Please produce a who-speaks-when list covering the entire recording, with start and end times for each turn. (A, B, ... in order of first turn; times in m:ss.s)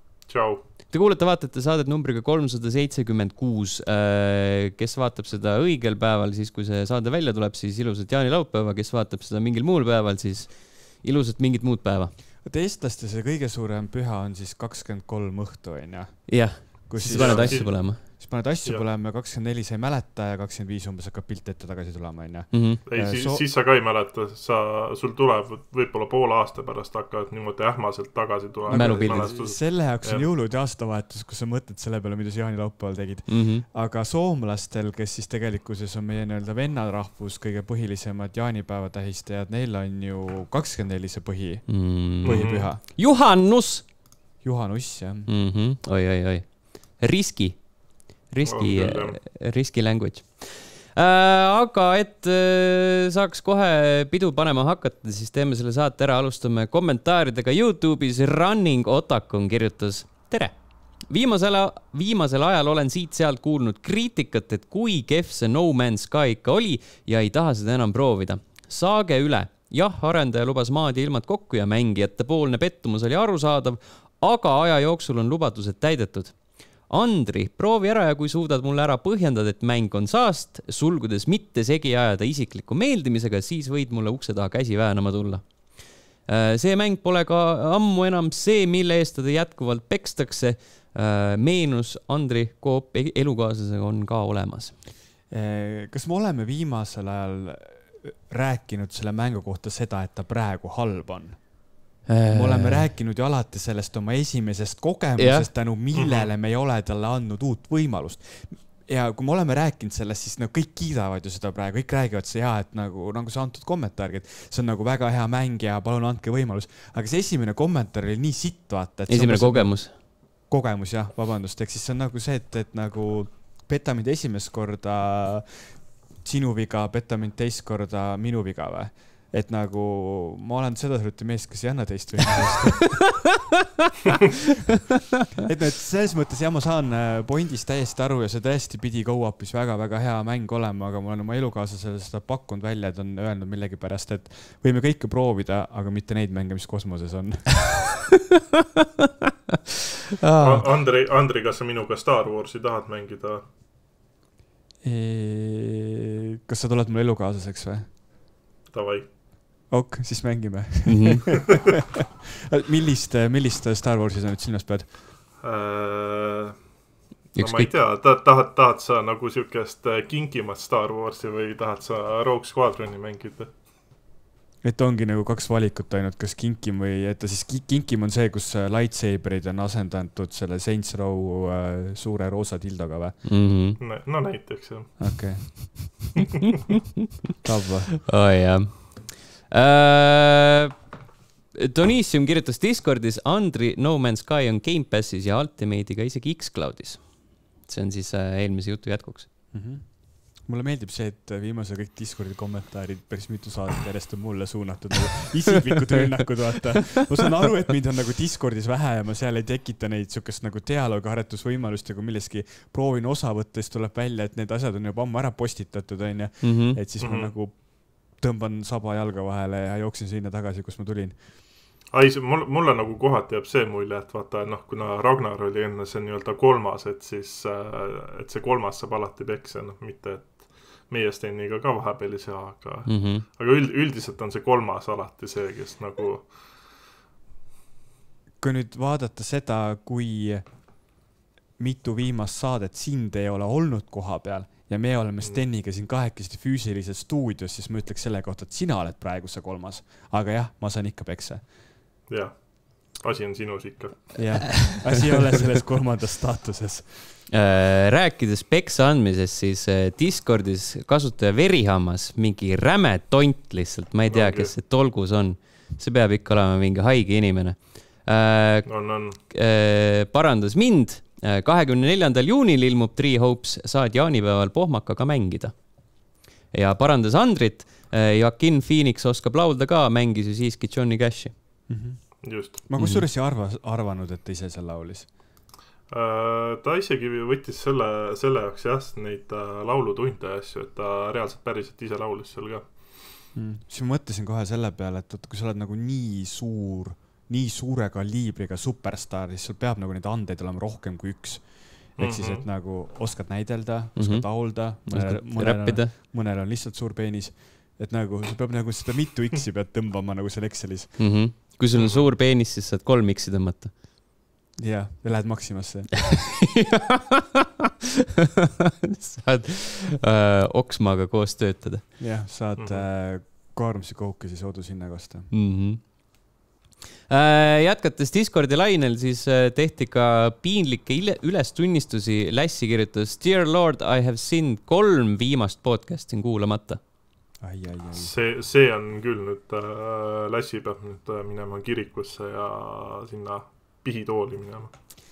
0:00.3-0:00.6 A
0:00.9-0:12.1 B
0:12.4-0:23.4 C
0:16.3-0:18.0 B
0:17.0-0:18.9 A
0:22.5-0:22.8 B
0:22.9-0:30.3 A
0:28.7-0:42.8 C
0:28.7-0:29.3 B
0:33.3-0:33.6 B
0:41.7-0:43.9 B
0:42.2-0:42.7 A
0:44.4-0:45.3 C
0:45.3-1:34.8 B
0:48.4-0:49.2 A
1:35.3-1:41.7 C
1:42.1-1:42.9 B
1:42.3-2:13.2 C
1:45.2-1:45.5 B
1:45.9-1:46.3 A
1:59.1-1:59.9 B
2:15.4-2:27.9 C
2:30.2-2:30.7 B
2:30.4-2:33.4 A
2:34.8-2:37.9 C
2:38.7-2:39.1 A
2:39.7-2:41.8 C
2:40.8-2:41.5 B
2:42.5-2:45.1 C
2:45.4-2:46.8 A
2:47.3-2:53.5 A
2:47.3-2:47.7 B
2:54.6-3:03.2 C
3:03.2-3:03.8 B
3:03.8-3:05.6 A
3:05.0-3:06.2 C
3:07.4-3:08.0 C
3:08.1-3:10.7 B
3:11.5-3:19.3 B
3:19.5-3:41.2 C
3:36.4-3:36.8 B
3:37.0-3:37.3 A
3:41.9-3:56.4 A
3:52.9-3:53.2 B
3:58.4-4:00.8 C
4:01.6-4:11.5 C
4:12.1-4:14.5 A
4:14.2-4:17.1 C
4:17.3-4:41.4 B
4:24.1-4:24.5 A
4:28.7-4:29.2 A
4:41.7-4:45.1 C
4:42.2-4:42.6 A
4:42.8-4:43.0 B
4:45.9-4:52.9 A
4:53.3-5:11.3 C
5:02.0-5:02.5 A
5:04.0-5:05.9 B
5:11.0-5:13.7 B
5:11.7-5:12.1 A
5:14.6-5:16.4 C
5:18.9-5:22.1 B
5:22.0-5:25.3 C
5:22.6-5:22.9 A
5:25.3-5:25.9 B
5:27.1-5:36.8 B
5:37.4-5:38.1 C
5:37.9-5:44.7 A